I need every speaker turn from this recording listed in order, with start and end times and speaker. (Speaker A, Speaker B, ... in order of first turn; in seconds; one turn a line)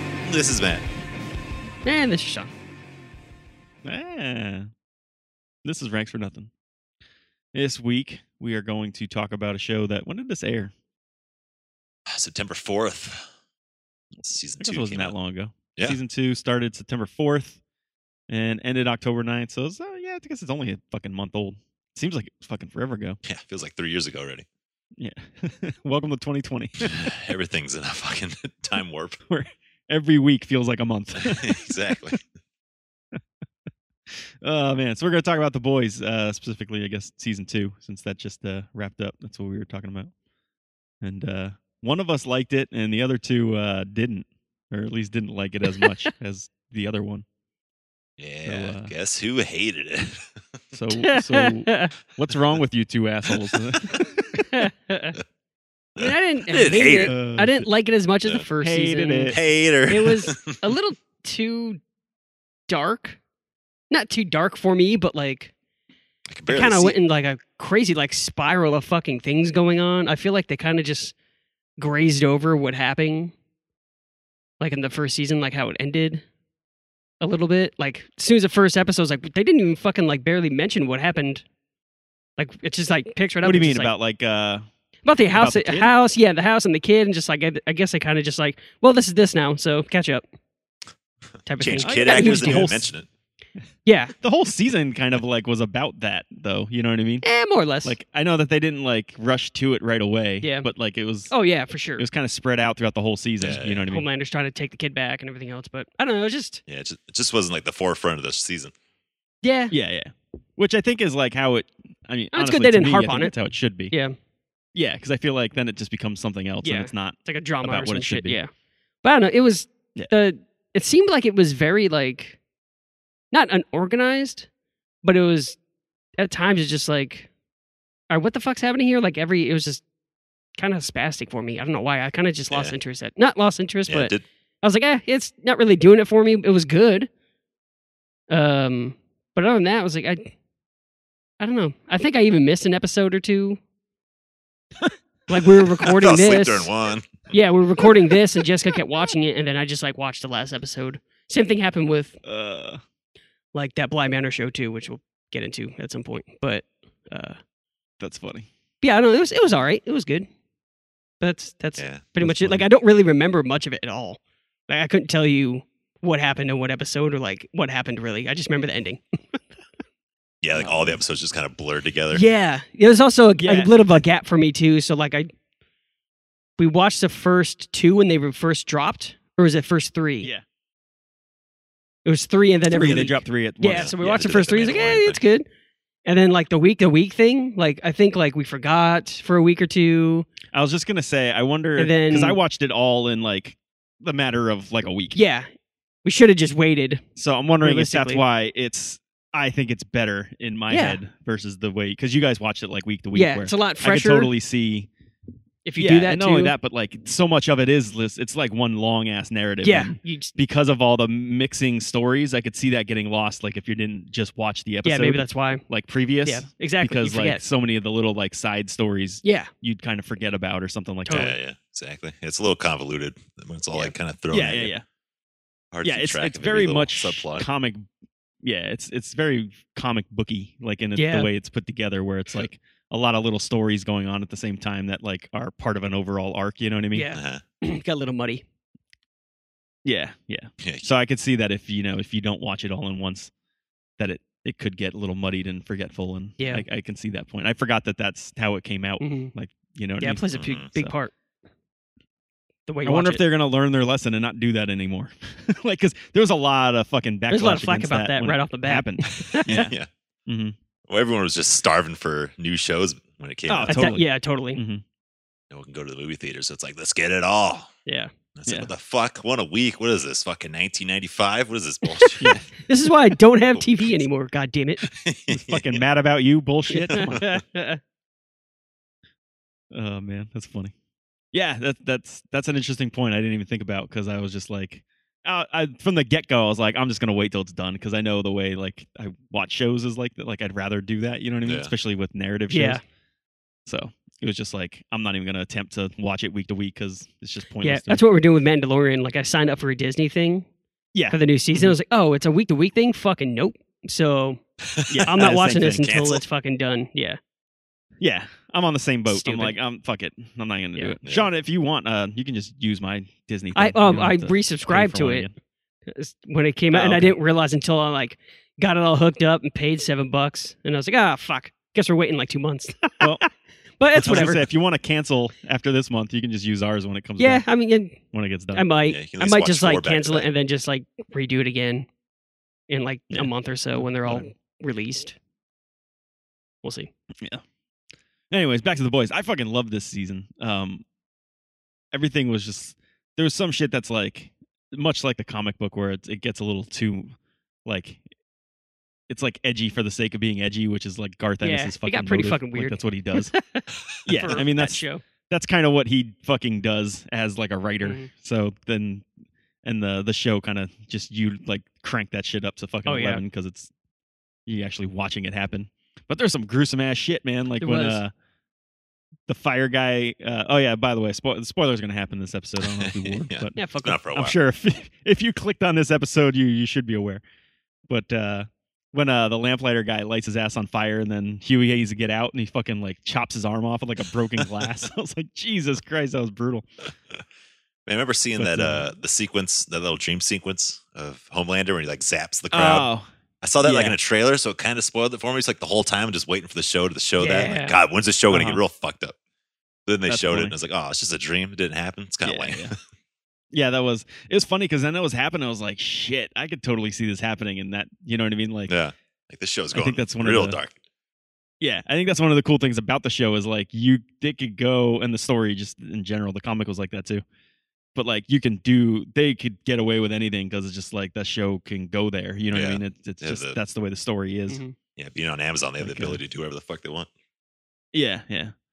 Speaker A: 0.2-0.9
Speaker B: 1.9-2.5
Speaker C: 3.9-4.7
Speaker C: 5.7-6.5
Speaker C: 7.5-10.7
Speaker A: 12.1-13.3
Speaker C: 14.2-17.6
Speaker A: 14.3-15.1
Speaker C: 18.3-23.2
Speaker A: 23.2-24.5
Speaker C: 25.0-27.0
Speaker A: 26.8-29.2
Speaker C: 29.3-31.7
Speaker A: 31.2-32.2
Speaker C: 34.4-40.1
Speaker C: 41.0-47.2
Speaker A: 48.2-50.3
Speaker C: 48.5-48.9
Speaker C: 50.7-54.7
Speaker B: 51.0-51.9
Speaker B: 54.5-55.2
Speaker A: 56.0-57.1
Speaker B: 56.0-61.8
Speaker C: 57.1-57.7
Speaker C: 58.6-59.4
Speaker A: 59.3-60.7
Speaker B: 62.7-63.2
Speaker B: 63.9-65.5
Speaker A: 66.3-67.0
Speaker B: 66.5-71.1
Speaker B: 71.8-73.3
Speaker B: 74.6-76.2
Speaker B: 77.2-81.4
Speaker B: 82.4-83.9
Speaker C: 83.4-84.7
Speaker B: 85.0-90.2
Speaker C: 85.3-85.9
Speaker B: 91.5-92.8
Speaker A: 91.6-93.1
Speaker C: 91.7-92.9
Speaker B: 93.9-94.1
Speaker C: 94.2-97.3
Speaker B: 97.2-98.0
Speaker C: 97.8-101.3
Speaker B: 100.4-100.7
Speaker B: 101.3-102.0
Speaker C: 102.0-104.1
Speaker A: 103.4-103.9
Speaker B: 103.9-106.6
Speaker A: 106.7-108.7
Speaker B: 109.4-109.7
Speaker C: 109.7-113.9
Speaker B: 112.3-113.3
Speaker C: 114.8-118.4
Speaker B: 116.6-118.5
Speaker B: 119.0-122.4
Speaker B: 123.3-124.5
Speaker B: 125.0-125.6
Speaker B: 126.2-127.3
Speaker B: 128.1-129.8
Speaker B: 130.6-137.1
Speaker A: 132.5-132.8
Speaker A: 133.9-134.2
Speaker B: 138.3-140.3
Speaker B: 141.4-143.6
Speaker B: 145.3-146.7
Speaker A: 145.8-147.3
Speaker B: 147.3-152.2
Speaker C: 152.2-152.8
Speaker B: 153.5-157.4
Speaker C: 158.0-158.5
Speaker B: 158.8-160.3
Speaker B: 161.2-169.4
Speaker A: 161.8-162.7
Speaker A: 170.4-172.2
Speaker C: 170.6-171.0
Speaker B: 172.1-175.3
Speaker C: 173.4-174.0
Speaker B: 176.6-180.3
Speaker B: 182.1-185.4
Speaker C: 182.7-184.2
Speaker A: 182.8-183.1
Speaker A: 183.7-185.2
Speaker B: 186.1-190.3
Speaker C: 190.5-195.2
Speaker B: 191.8-192.4
Speaker B: 195.1-195.5
Speaker B: 196.0-197.0
Speaker C: 197.2-204.9
Speaker B: 197.6-198.2
Speaker B: 200.7-201.0
Speaker B: 203.1-204.3
Speaker B: 205.7-206.6
Speaker C: 205.8-221.3
Speaker B: 209.6-210.3
Speaker B: 214.8-215.6
Speaker B: 216.2-217.4
Speaker B: 219.2-219.5
Speaker B: 221.1-221.3
Speaker A: 221.1-224.7
Speaker C: 224.3-224.8
Speaker A: 225.7-227.5
Speaker C: 225.8-227.9
Speaker C: 228.4-237.1
Speaker B: 231.0-231.3
Speaker B: 236.9-238.4
Speaker A: 237.1-237.4
Speaker C: 239.8-243.3
Speaker A: 240.6-240.8
Speaker C: 244.0-250.2
Speaker B: 246.4-246.6
Speaker B: 249.0-249.3
Speaker B: 250.0-251.1
Speaker A: 250.3-250.7
Speaker B: 252.7-253.2
Speaker C: 252.8-259.7
Speaker B: 257.3-259.7
Speaker A: 259.5-259.9
Speaker C: 260.3-260.6
Speaker A: 260.9-264.0
Speaker C: 263.5-264.8
Speaker B: 263.7-264.6
Speaker A: 265.5-267.7
Speaker B: 267.9-268.1
Speaker A: 268.4-272.4
Speaker B: 272.0-274.9
Speaker C: 272.2-272.5
Speaker A: 273.5-274.0
Speaker A: 274.8-275.8
Speaker C: 275.3-277.3
Speaker B: 276.7-277.8
Speaker A: 276.9-277.4
Speaker C: 279.7-280.7
Speaker C: 281.3-292.8
Speaker A: 291.4-291.7
Speaker B: 292.5-292.8
Speaker C: 293.7-298.0
Speaker B: 297.6-300.5
Speaker C: 300.9-301.8
Speaker B: 301.1-304.4
Speaker A: 304.7-305.1
Speaker C: 304.9-305.9
Speaker B: 305.1-307.2
Speaker A: 305.8-306.2
Speaker C: 308.0-315.3
Speaker B: 309.1-309.6
Speaker B: 313.6-315.3
Speaker B: 315.9-323.3
Speaker C: 316.7-317.2
Speaker B: 323.8-324.5
Speaker C: 323.9-327.4
Speaker B: 327.2-328.0
Speaker C: 328.1-328.6
Speaker B: 328.5-331.9
Speaker A: 328.9-330.3
Speaker B: 332.7-335.2
Speaker C: 333.1-334.3
Speaker B: 336.6-336.9
Speaker C: 338.3-340.8
Speaker C: 341.9-347.1
Speaker C: 347.6-348.0
Speaker C: 349.1-353.3
Speaker B: 351.4-355.0
Speaker C: 354.1-359.1
Speaker B: 357.8-358.1
Speaker C: 359.6-363.7
Speaker B: 362.9-363.2
Speaker C: 364.5-368.1
Speaker B: 367.6-368.0
Speaker C: 369.3-373.6
Speaker A: 372.6-374.4
Speaker B: 373.6-374.0
Speaker C: 374.1-377.2
Speaker C: 377.9-386.7
Speaker A: 384.4-384.7
Speaker A: 387.9-392.9
Speaker C: 388.4-388.9
Speaker C: 392.5-393.1
Speaker A: 393.4-399.1
Speaker C: 393.6-394.0
Speaker B: 397.2-397.8
Speaker C: 398.3-398.6
Speaker A: 399.9-402.7
Speaker C: 400.1-400.5
Speaker C: 402.2-402.7
Speaker C: 403.5-408.7
Speaker A: 408.7-410.8
Speaker C: 409.7-410.6
Speaker C: 411.6-417.2
Speaker C: 417.9-424.6
Speaker A: 422.5-423.6
Speaker B: 424.5-424.8
Speaker A: 425.0-427.1
Speaker C: 425.8-426.2
Speaker C: 427.9-428.5